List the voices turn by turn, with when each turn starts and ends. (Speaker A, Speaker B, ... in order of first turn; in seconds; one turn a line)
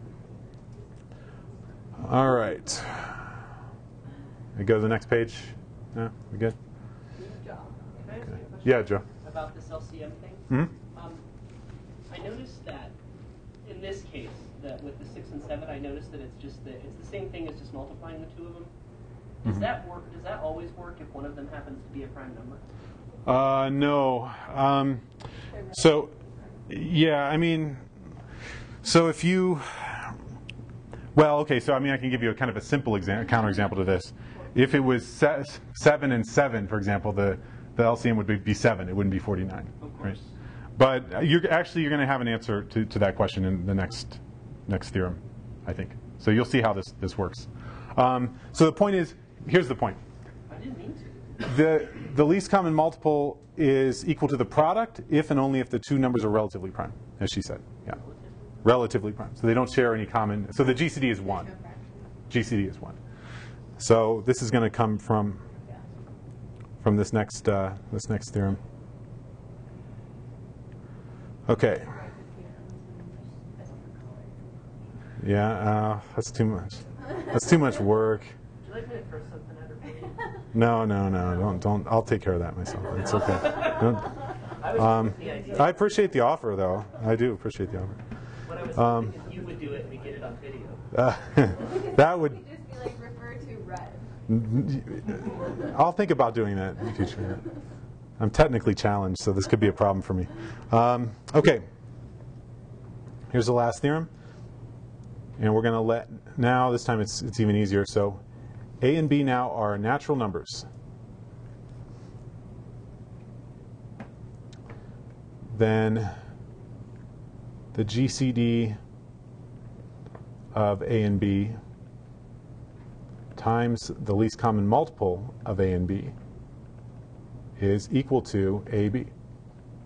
Speaker A: 2.0-3.3
Speaker A: 4.5-6.5
Speaker B: 7.9-11.2
Speaker A: 8.6-9.0
Speaker B: 12.1-12.9
Speaker B: 13.6-18.7
Speaker B: 19.4-22.6
Speaker A: 23.2-25.0
Speaker A: 25.7-26.1
Speaker A: 26.7-27.8
Speaker A: 28.8-30.2
Speaker A: 31.1-40.1
Speaker B: 39.8-40.3
Speaker A: 40.8-50.0
Speaker B: 50.5-51.5
Speaker A: 51.4-58.0
Speaker B: 57.9-58.6
Speaker A: 58.6-61.5
Speaker C: 61.2-62.1
Speaker A: 62.3-63.0
Speaker A: 63.8-65.5
Speaker A: 66.8-68.6
Speaker A: 71.5-71.9
Speaker C: 71.8-74.4
Speaker A: 75.2-78.3
Speaker B: 78.6-80.2
Speaker A: 80.5-88.0
Speaker B: 82.9-86.0
Speaker B: 88.5-90.8
Speaker A: 88.7-89.1
Speaker A: 90.9-92.4
Speaker C: 91.5-94.1
Speaker A: 94.3-97.5
Speaker A: 98.2-101.7
Speaker A: 103.3-104.1
Speaker A: 105.4-108.2
Speaker A: 108.8-110.7
Speaker A: 115.5-116.1
Speaker A: 117.7-118.8
Speaker A: 120.5-121.6
Speaker A: 123.3-126.1
Speaker A: 127.6-129.1